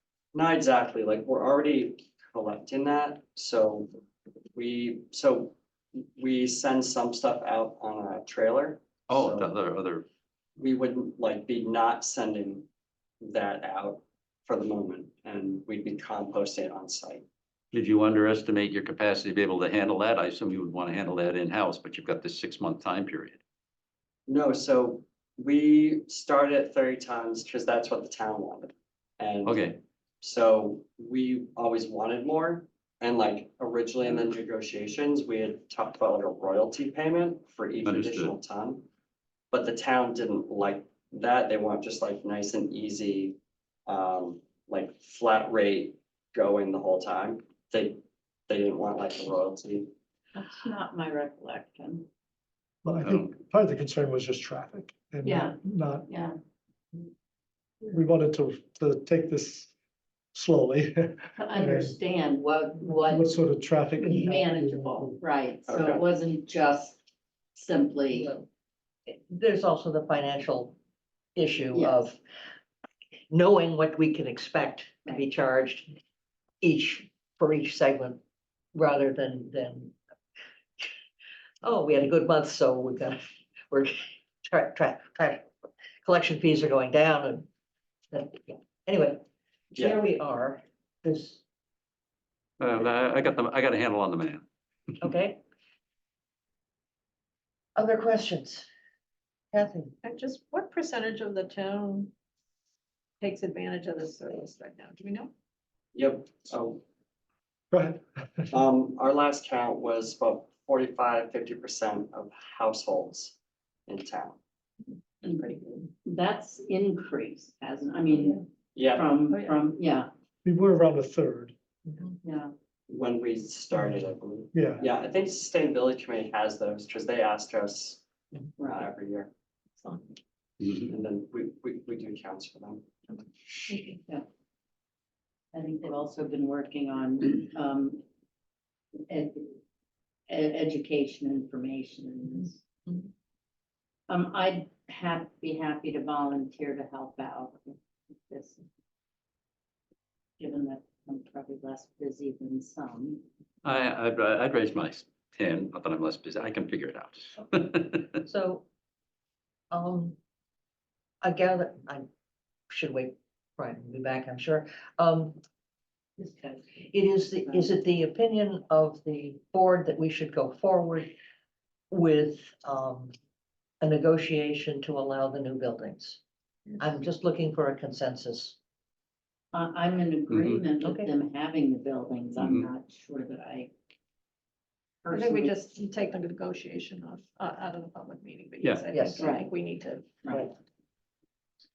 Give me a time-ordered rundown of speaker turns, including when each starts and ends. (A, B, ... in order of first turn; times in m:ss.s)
0:00.3-0:03.9 A
0:04.6-0:05.6 A
0:06.2-0:09.5 A
0:09.1-0:10.1 B
0:10.6-0:12.7 A
0:13.2-0:17.2 A
0:17.7-0:23.4 B
0:24.3-0:29.7 A
0:29.4-0:29.8 B
0:30.2-0:38.9 A
0:37.8-0:38.4 B
0:39.5-0:49.9 A
0:50.4-0:52.1 C
0:52.8-0:56.1 D
0:53.0-0:53.3 B
0:55.2-0:56.4 C
0:57.9-0:59.7 D
1:00.3-1:02.0 D
1:01.4-1:03.4 C
1:03.0-1:05.2 D
1:04.0-1:07.0 C
1:05.7-1:06.0 A
1:07.6-1:08.3 C
1:08.1-1:08.5 E
1:09.1-1:10.8 E
1:11.4-1:12.2 E
1:11.7-1:12.0 C
1:13.3-1:16.0 E
1:16.6-1:18.2 E
1:18.7-1:20.0 E
1:21.6-1:23.2 E
1:23.7-1:25.4 E
1:26.0-1:27.5 E
1:28.1-1:29.2 E
1:29.7-1:30.0 A
1:29.7-1:31.4 E
1:32.6-1:34.4 B
1:35.0-1:35.4 E
1:37.8-1:38.7 E
1:39.5-1:40.0 E
1:40.0-1:42.1 F
1:43.2-1:45.3 F
1:45.9-1:46.8 A
1:47.7-1:48.6 D
1:48.5-1:54.4 A
1:55.2-2:00.1 C
1:55.4-1:55.8 F
1:58.8-1:59.1 A
2:00.4-2:01.6 D
2:02.2-2:02.5 C
2:02.9-2:08.0 A
2:04.5-2:04.8 D
2:08.6-2:09.3 A
2:09.8-2:10.1 F
2:10.9-2:12.9 A
2:13.7-2:14.0 F
2:15.5-2:18.0 C
2:19.1-2:19.6 C
2:20.3-2:22.6 C
2:24.1-2:28.6 C
2:30.4-2:33.2 C
2:33.6-2:38.2 B
2:38.2-2:38.6 E
2:39.7-2:40.2 E
2:41.2-2:42.1 E
2:42.7-2:45.4 E
2:46.2-2:46.5 C
2:46.3-2:51.1 E
2:51.9-2:53.1 E
2:53.8-2:56.2 E
2:56.8-2:58.6 E
2:59.5-3:03.8 C
3:00.3-3:00.6 B
3:00.8-3:01.1 E
3:02.4-3:02.7 B
3:05.0-3:05.6 C
3:05.1-3:10.2 F
3:08.6-3:08.9 B
3:08.9-3:09.3 E
3:09.2-3:09.5 C
3:10.2-3:10.5 C